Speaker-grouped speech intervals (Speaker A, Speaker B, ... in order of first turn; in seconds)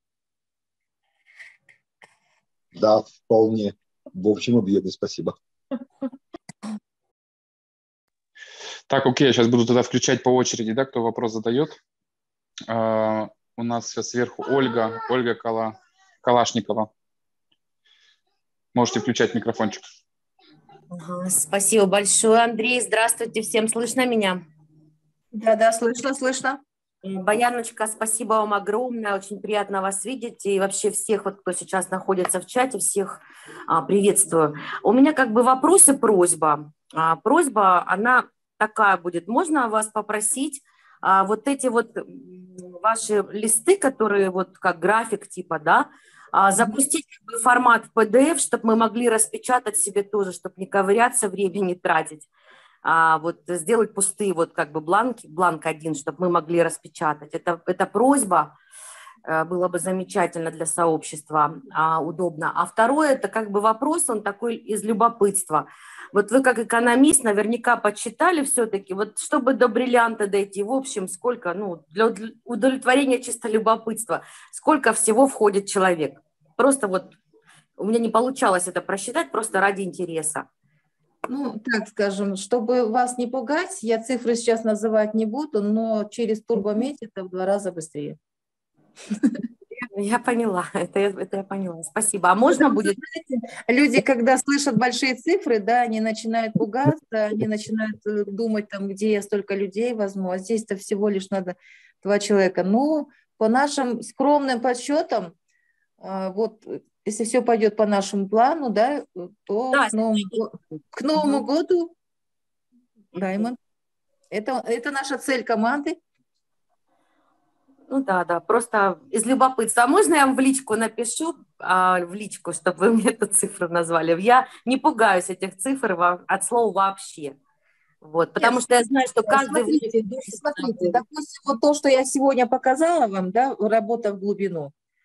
Speaker A: 2.7-5.3
Speaker B: 8.9-11.8, 12.7-16.9, 18.7-19.8
Speaker C: 20.9-24.4, 27.0-52.3, 52.8-58.5, 59.2-77.2, 77.8-80.5, 89.7-93.0, 109.7-110.4, 111.1-111.4, 113.1-113.5, 117.9-127.4, 128.0-131.0
Speaker D: 25.3-26.6, 81.3-88.2, 92.5-105.3, 106.0-111.9, 113.2-113.6, 114.3-116.0, 128.4-134.7